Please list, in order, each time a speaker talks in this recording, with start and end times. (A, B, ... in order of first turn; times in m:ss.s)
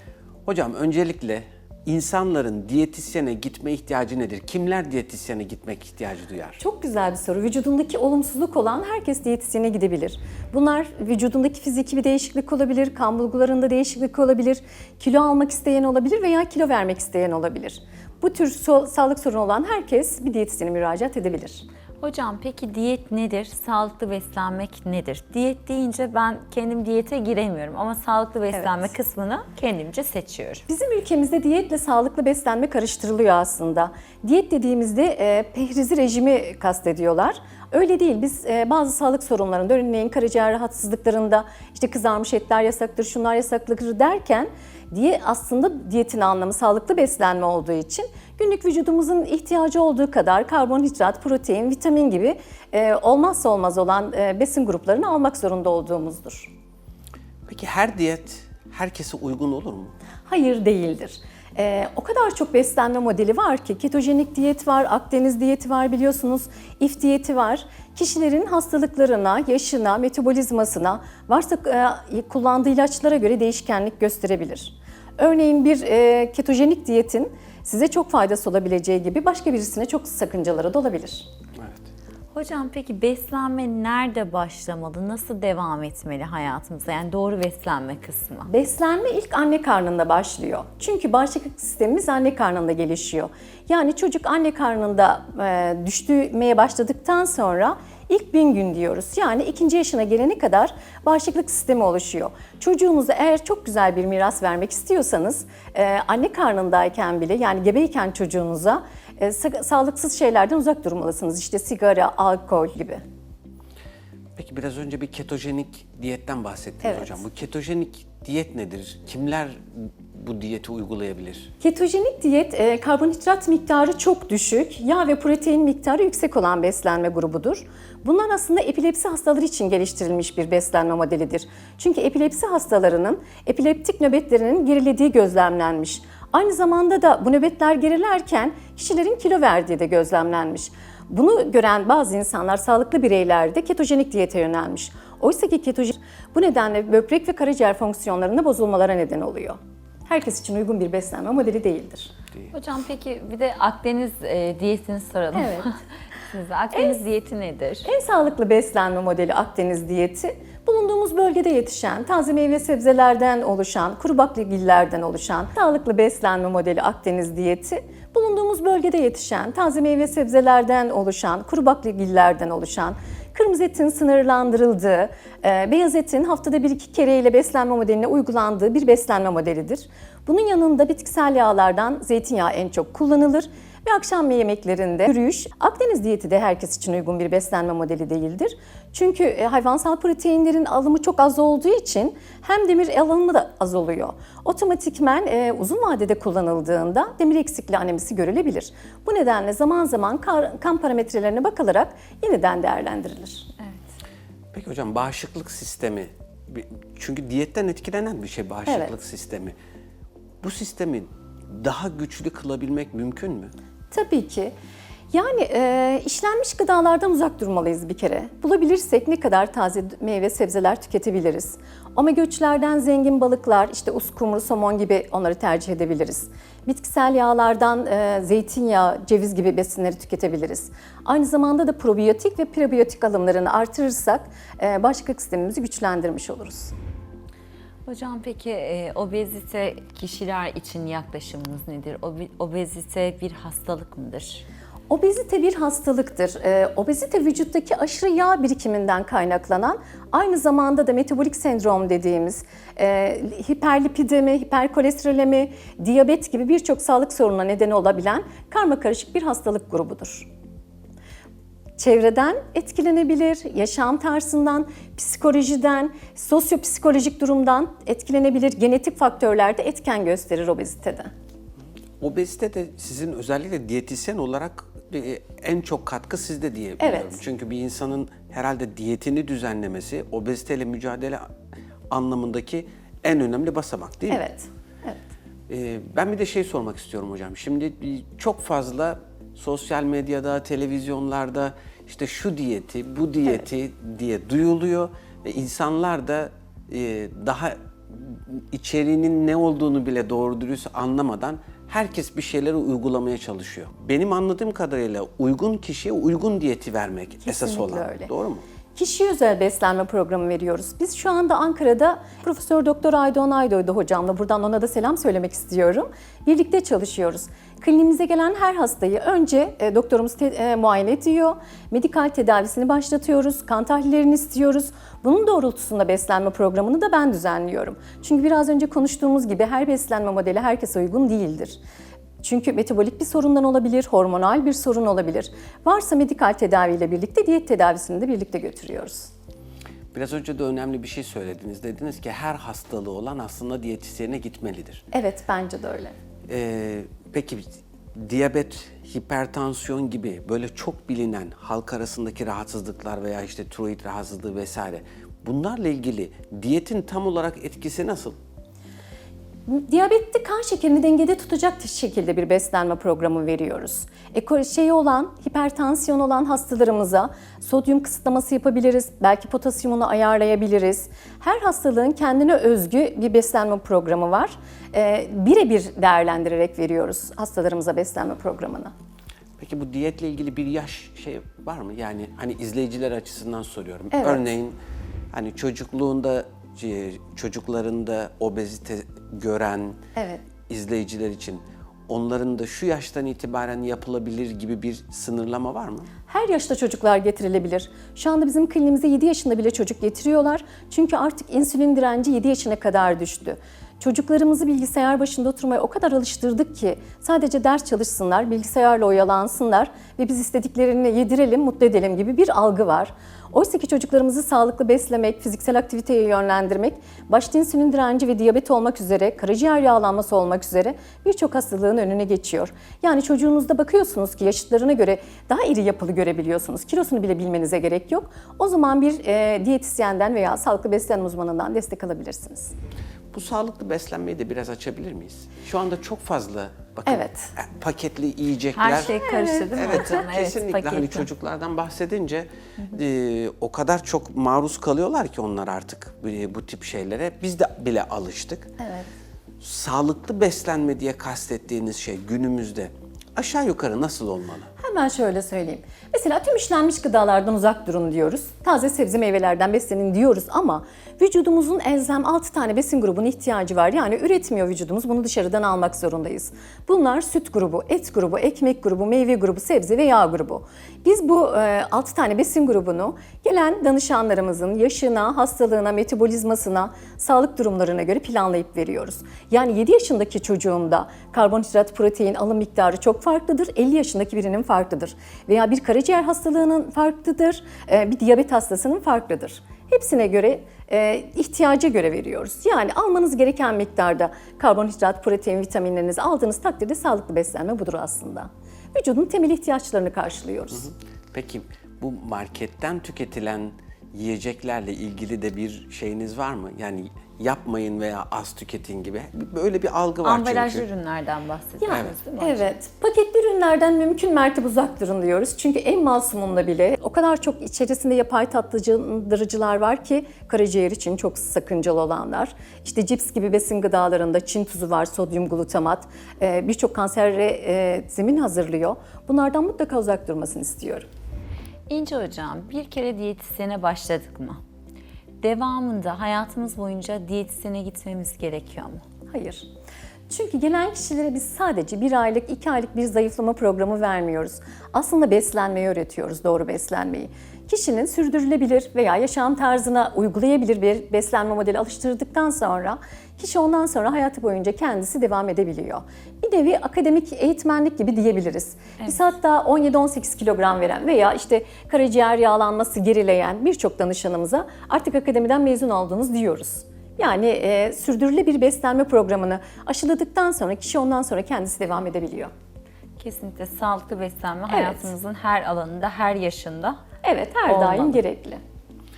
0:00.5-0:06.6 A
0:06.6-0:21.7 B
0:22.0-0:30.6 C
0:28.5-0:28.9 B
0:30.7-0:56.5 B
0:57.5-0:59.9 A
1:00.3-1:21.3 B
1:22.3-1:28.5 C
1:28.5-1:53.0 B
1:54.4-2:01.5 A
1:56.8-1:57.2 B
2:01.6-2:32.1 B
2:32.5-2:35.8 C
2:35.3-2:35.7 B
2:36.3-2:37.9 C
2:36.7-2:37.0 B
2:37.8-3:23.5 B
3:24.5-3:29.6 A
3:28.7-3:28.9 B
3:30.4-3:33.5 A
3:33.9-3:34.6 B
3:35.1-3:56.7 B
3:57.9-4:04.4 C
4:04.9-4:20.3 B
4:21.8-4:31.1 B
4:32.0-4:41.3 A
4:36.8-4:37.2 B
4:41.9-4:44.2 A
4:44.1-4:45.0 B
4:45.5-5:08.4 A
5:07.2-5:08.1 B
5:08.8-5:31.6 B
5:32.2-5:39.1 B
5:39.9-5:44.8 A
5:44.9-5:46.0 B
5:46.3-5:58.2 A
5:59.5-6:18.7 B
6:19.4-6:24.6 A
6:23.9-6:24.2 B
6:25.1-6:29.8 A
6:30.0-6:30.2 B
6:30.5-6:35.9 A
6:36.1-7:12.5 B
7:13.1-7:19.0 A
7:16.9-7:17.3 B
7:18.6-7:21.1 C
7:18.8-7:19.9 B
7:19.5-7:28.5 A
7:28.6-7:28.9 B
7:29.4-7:34.5 A
7:34.6-8:20.7 B
8:21.1-8:30.7 A
8:30.0-8:32.5 C
8:31.6-8:50.9 B
8:31.7-8:31.9 A
8:51.7-8:54.4 C
8:55.2-8:58.8 C
8:59.1-8:59.5 B
9:00.1-9:32.3 B
9:33.0-9:36.8 C
9:34.5-9:34.9 B
9:37.0-9:38.4 B
9:37.5-9:38.0 C